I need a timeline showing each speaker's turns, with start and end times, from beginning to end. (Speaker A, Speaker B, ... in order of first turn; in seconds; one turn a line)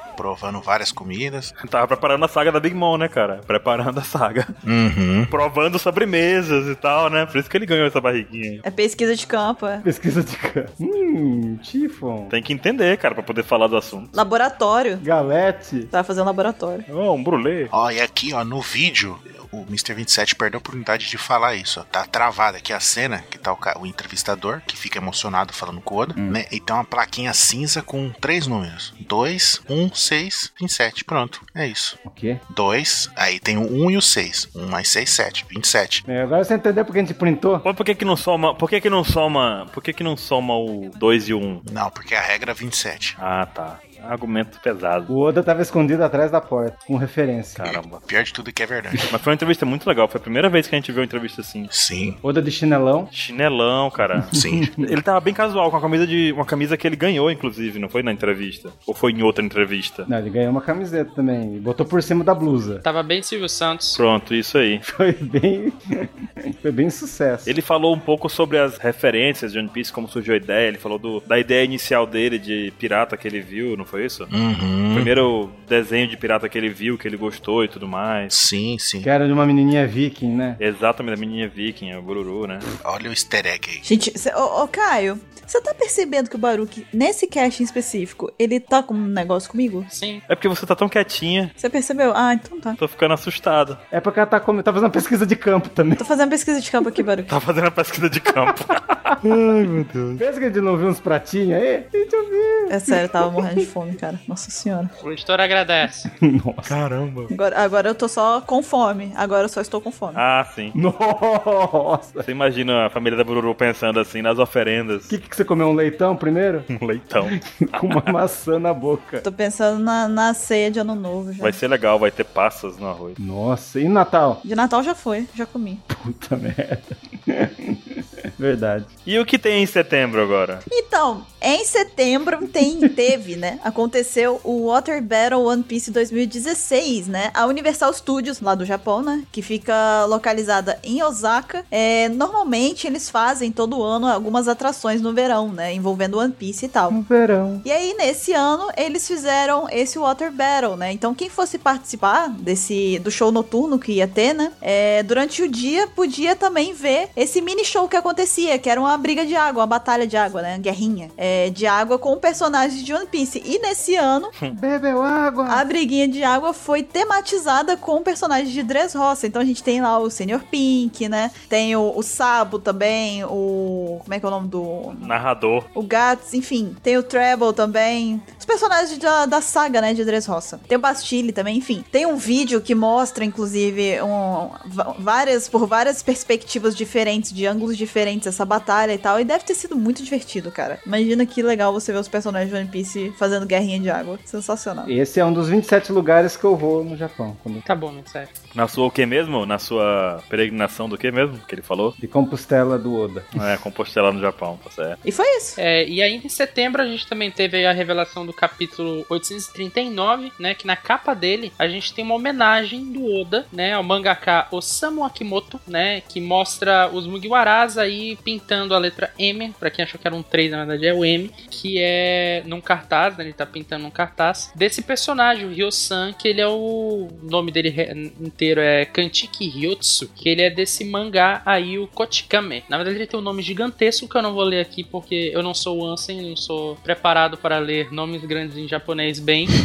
Speaker A: 0.2-1.5
Speaker B: 1.6-4.5
Speaker A: 4.7-5.3
Speaker B: 5.3-8.6
Speaker C: 8.6-9.8
Speaker D: 9.8-12.3
Speaker B: 12.3-14.2
Speaker C: 14.1-15.0
Speaker D: 15.0-15.9
Speaker C: 15.9-16.9
Speaker B: 16.9-17.7
Speaker A: 17.7-36.0
Speaker D: 32.0-32.4
Speaker D: 36.1-37.7
Speaker B: 37.6-41.6
Speaker A: 41.6-43.2
Speaker B: 43.2-45.1
Speaker D: 45.1-47.8
Speaker B: 47.6-48.1
Speaker A: 48.1-49.1
Speaker B: 49.1-51.7
Speaker A: 51.7-52.2
Speaker D: 52.2-53.1
Speaker B: 53.1-60.1
Speaker D: 54.2-54.9
Speaker A: 54.3-54.7
Speaker D: 60.1-62.8
Speaker E: 62.8-64.0
Speaker B: 64.0-64.8
Speaker D: 64.8-67.6
Speaker B: 67.5-74.3
Speaker A: 74.3-75.1
Speaker B: 74.9-78.4
Speaker A: 78.3-79.1
Speaker D: 79.0-80.6
Speaker B: 80.6-82.7
Speaker A: 82.8-83.8
Speaker C: 83.8-89.9
Speaker E: 89.9-90.2
Speaker B: 90.3-91.5
Speaker C: 91.6-92.8
Speaker B: 92.8-93.8
Speaker D: 93.9-96.0
Speaker C: 96.0-97.3
Speaker B: 97.3-100.2
Speaker D: 99.1-103.4
Speaker C: 102.7-104.9
Speaker E: 105.0-106.1
Speaker D: 106.1-106.8
Speaker B: 106.7-107.3
Speaker C: 107.3-110.2
Speaker B: 110.2-110.8
Speaker D: 110.7-112.3
Speaker B: 112.2-115.2
Speaker D: 115.1-116.7
Speaker B: 116.7-118.1
Speaker D: 117.2-119.2
Speaker C: 119.2-121.6
Speaker B: 121.4-123.2
Speaker D: 123.2-124.4
Speaker C: 124.4-125.8
Speaker D: 125.9-128.9
Speaker B: 129.1-130.6
Speaker C: 130.7-147.0
Speaker D: 146.9-147.7
Speaker C: 147.6-164.3
Speaker D: 164.5-165.7
Speaker C: 165.5-175.1
Speaker B: 175.0-175.7
Speaker C: 175.8-194.9
Speaker D: 194.8-197.6
Speaker E: 197.7-198.3
Speaker B: 198.5-202.0
Speaker D: 202.0-203.4
Speaker B: 203.3-205.0
Speaker C: 205.0-205.6
Speaker E: 205.6-239.5